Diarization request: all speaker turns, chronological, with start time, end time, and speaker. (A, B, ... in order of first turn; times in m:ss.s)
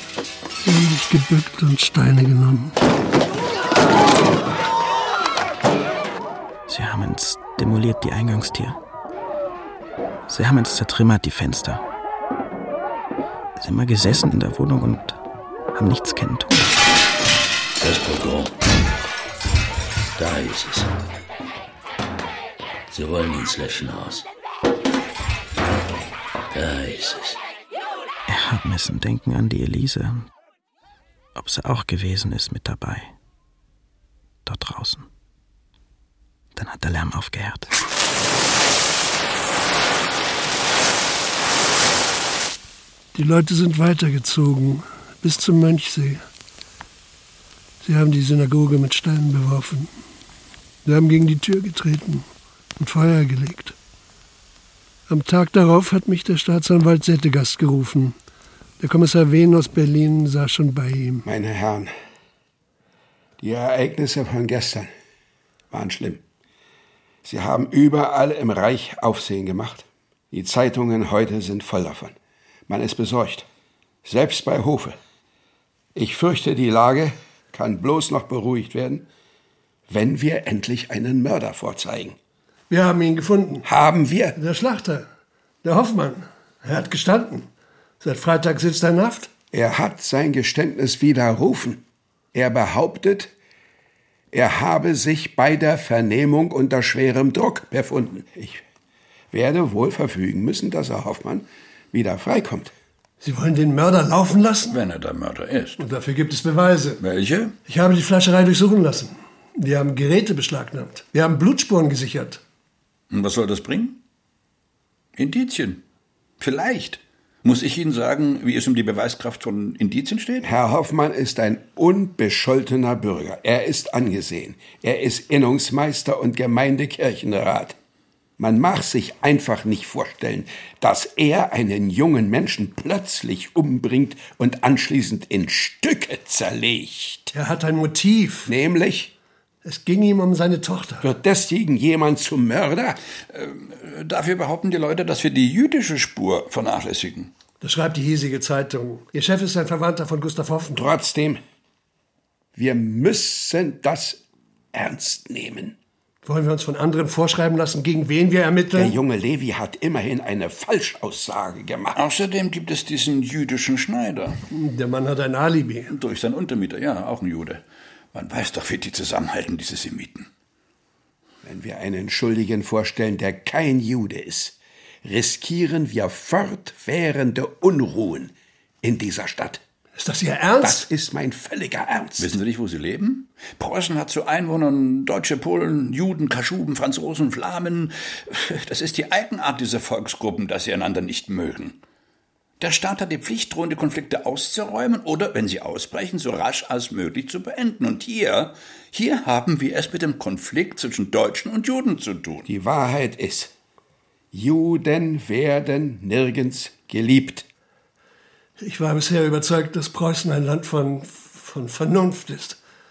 0:00.6-0:02.8 A
0:06.7-0:08.8 B
0:10.3-0:11.8 B
0:13.6-0:15.2 B
0:15.7-0:16.7 B
0:17.7-0:18.5 C
0:20.2-0:20.9 C
0:22.9-0:24.2 C
0:26.5-0:27.4 C
0:28.3-0:30.3 B
0:31.4-0:33.1 B
0:34.4-0:35.0 B
0:36.6-0:37.7 B
0:43.1-0:46.2 A
0:47.8-0:49.9 A
0:50.8-0:52.3 A
0:52.8-0:53.8 A
0:55.1-0:58.2 A
0:58.8-1:01.3 A
1:01.2-1:01.9 D
1:03.4-1:04.9 D
1:05.7-1:06.2 D
1:07.2-1:12.1 D
1:12.7-1:13.4 D
1:14.0-1:15.0 D
1:15.9-1:19.1 D
1:19.9-1:22.2 D
1:22.7-1:23.7 A
1:23.6-1:24.4 D
1:24.4-1:25.1 A
1:25.6-1:27.5 A
1:28.0-1:29.3 A
1:29.5-1:33.3 D
1:34.3-1:38.6 D
1:39.3-1:42.7 D
1:43.2-1:44.8 A
1:44.7-1:45.8 E
1:45.8-1:47.0 A
1:47.0-1:47.5 E
1:47.6-1:52.4 A
1:53.1-1:54.0 E
1:55.2-1:55.8 E
1:56.4-2:00.5 E
2:00.4-2:07.8 D
2:08.4-2:17.3 D
2:17.3-2:18.5 A
2:18.5-2:19.1 D
2:19.6-2:21.1 A
2:21.0-2:23.0 D
2:23.3-2:27.3 E
2:27.6-2:30.9 A
2:30.7-2:31.4 D
2:32.5-2:34.2 D
2:34.7-2:35.7 D
2:36.2-2:39.0 A
2:38.7-2:42.0 D
2:41.9-2:44.4 E
2:44.5-2:45.9 A
2:45.9-2:50.3 E
2:51.4-2:59.6 D
3:00.0-3:00.9 A
3:00.6-3:02.3 D
3:02.2-3:11.8 E
3:12.6-3:22.4 E
3:22.4-3:23.5 D
3:24.3-3:27.4 D
3:28.6-3:32.6 A